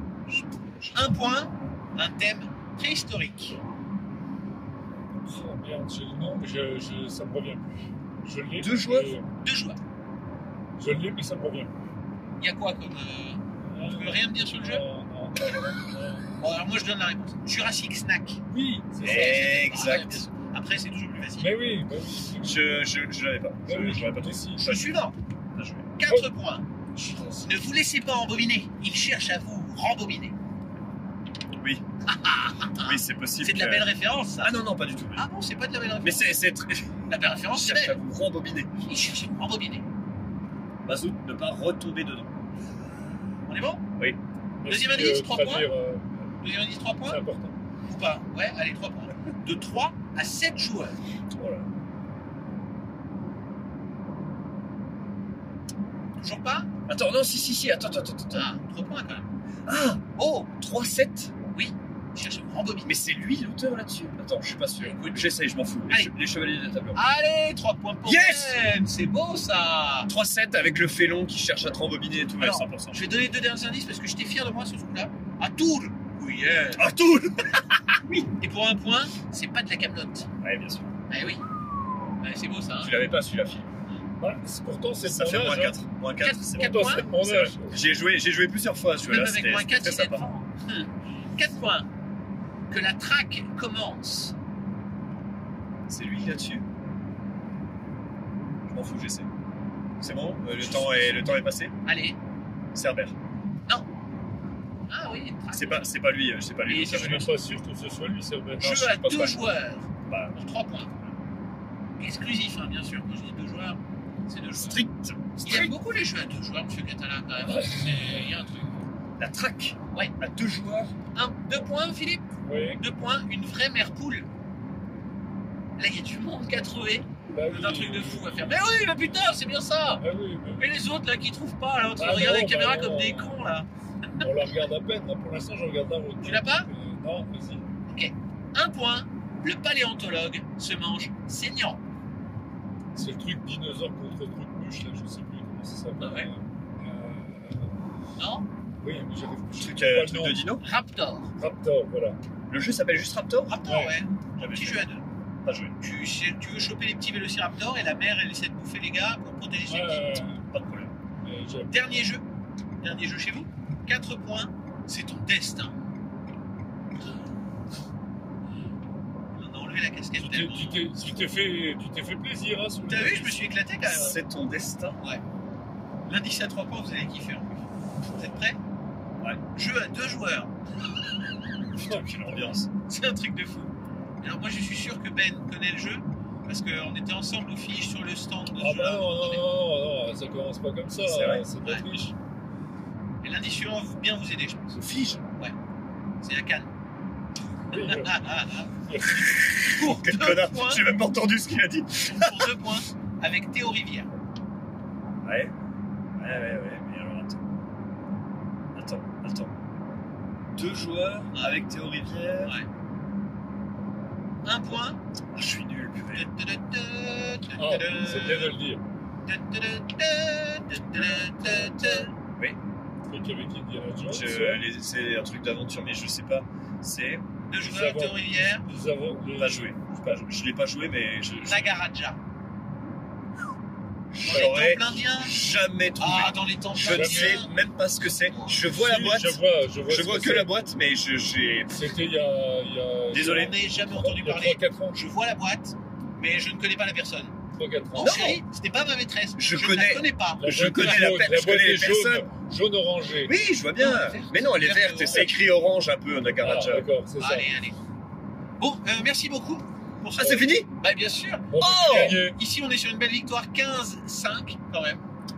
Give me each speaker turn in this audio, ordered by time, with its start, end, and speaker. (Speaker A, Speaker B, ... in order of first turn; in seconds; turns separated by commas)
Speaker A: 0.3-1.2, Speaker B: 0.9-3.6, Speaker C: 5.2-9.2, Speaker A: 8.6-9.1, Speaker B: 9.4-9.8, Speaker C: 10.8-11.7, Speaker B: 12.4-14.8, Speaker C: 13.6-16.3, Speaker B: 16.4-18.4, Speaker C: 18.5-19.4, Speaker A: 19.0-20.3, Speaker B: 19.0-21.5, Speaker C: 21.4-22.7, Speaker A: 22.4-24.9, Speaker C: 23.7-24.7, Speaker B: 24.6-25.1, Speaker A: 25.5-25.9, Speaker B: 26.0-26.6, Speaker C: 26.9-27.4, Speaker B: 27.4-30.4, Speaker A: 31.6-31.8, Speaker B: 32.1-34.5, Speaker A: 32.8-35.3, Speaker B: 35.1-36.3, Speaker A: 36.0-36.9, Speaker B: 37.1-38.0, Speaker A: 37.5-38.7, Speaker B: 38.8-39.9, Speaker A: 40.8-42.4, Speaker B: 43.5-43.8, Speaker C: 44.6-46.2, Speaker B: 44.6-45.7, Speaker B: 46.4-47.2, Speaker C: 47.0-47.5, Speaker B: 47.8-51.0, Speaker A: 51.3-51.7, Speaker B: 56.2-56.7, Speaker A: 56.9-58.5, Speaker B: 58.3-59.3, Speaker A: 59.6-61.3, Speaker B: 60.2-60.5, Speaker B: 61.5-63.0, Speaker A: 62.8-67.0, Speaker B: 64.8-65.3, Speaker B: 66.9-70.1, Speaker A: 68.0-68.7, Speaker A: 70.1-73.1, Speaker B: 72.4-76.9, Speaker A: 76.7-78.0, Speaker B: 78.1-80.3, Speaker A: 80.4-80.9, Speaker B: 81.1-81.4, Speaker B: 82.2-83.0, Speaker A: 82.8-83.7, Speaker C: 84.2-85.8, Speaker A: 85.0-90.3, Speaker B: 86.2-87.1, Speaker C: 86.5-87.8, Speaker B: 89.0-91.9, Speaker B: 92.7-94.3, Speaker A: 95.9-96.6, Speaker A: 98.7-99.3, Speaker A: 100.0-101.7, Speaker B: 100.5-102.2, Speaker A: 102.7-103.1, Speaker B: 104.9-105.9, Speaker A: 105.5-107.3, Speaker B: 106.7-107.2, Speaker C: 106.7-108.9, Speaker A: 108.6-109.5, Speaker B: 108.6-110.9, Speaker A: 110.1-110.4, Speaker B: 112.0-114.8, Speaker A: 114.5-115.7, Speaker B: 115.4-118.8, Speaker C: 117.4-118.3, Speaker A: 119.2-120.9, Speaker B: 121.1-122.2, Speaker C: 122.4-122.8, Speaker B: 122.8-124.3, Speaker B: 125.8-130.0, Speaker C: 127.3-128.5, Speaker C: 130.0-130.7, Speaker B: 130.6-134.3, Speaker C: 132.0-133.4, Speaker C: 134.2-137.6, Speaker B: 136.2-136.7, Speaker B: 137.9-141.8, Speaker C: 142.9-147.7, Speaker B: 146.0-146.3, Speaker B: 148.2-148.5, Speaker C: 148.8-150.4, Speaker A: 149.6-150.6, Speaker B: 150.6-151.3, Speaker C: 151.3-152.2, Speaker A: 152.5-153.6, Speaker B: 153.5-155.0, Speaker C: 153.6-154.0, Speaker A: 154.4-155.7, Speaker B: 155.8-160.2, Speaker C: 159.7-160.5, Speaker A: 160.5-160.9, Speaker C: 161.2-161.9, Speaker B: 161.7-162.2, Speaker B: 162.8-165.7, Speaker B: 169.3-170.9, Speaker C: 170.2-173.5, Speaker B: 172.9-174.2, Speaker A: 173.8-175.0, Speaker B: 176.1-178.6, Speaker B: 179.5-180.5, Speaker A: 181.8-182.7, Speaker C: 181.8-182.6, Speaker B: 182.7-189.4, Speaker C: 188.6-192.1, Speaker A: 191.0-191.4, Speaker B: 193.2-194.8, Speaker A: 194.8-195.2, Speaker B: 196.2-196.7, Speaker C: 197.7-199.5, Speaker B: 197.7-198.7, Speaker B: 199.4-200.8, Speaker A: 199.4-202.5, Speaker B: 202.1-204.1, Speaker A: 205.2-205.5, Speaker A: 206.2-207.4, Speaker A: 208.7-209.5, Speaker A: 210.5-212.5, Speaker B: 211.3-211.6, Speaker B: 214.4-215.0, Speaker A: 215.3-216.3, Speaker B: 216.1-218.5, Speaker C: 217.6-218.8, Speaker B: 219.2-222.1, Speaker A: 221.0-222.6, Speaker C: 223.1-224.6, Speaker A: 224.1-227.2, Speaker B: 227.5-228.7, Speaker C: 227.6-229.7, Speaker A: 229.4-231.7, Speaker B: 231.4-232.2, Speaker A: 234.1-241.7, Speaker B: 234.2-235.3, Speaker B: 236.0-237.5, Speaker C: 236.8-237.4, Speaker B: 238.2-238.5, Speaker C: 238.6-240.5, Speaker C: 241.7-245.0, Speaker A: 243.1-243.5, Speaker B: 243.2-247.3, Speaker C: 247.6-248.2, Speaker B: 247.9-251.1, Speaker A: 248.0-248.4, Speaker A: 249.4-252.3, Speaker C: 250.3-253.3, Speaker A: 253.2-256.9, Speaker B: 253.8-255.3, Speaker C: 256.4-257.5, Speaker B: 257.2-257.7, Speaker B: 258.6-265.0, Speaker A: 260.2-260.7, Speaker C: 260.2-260.4, Speaker C: 261.5-262.4, Speaker A: 261.6-262.2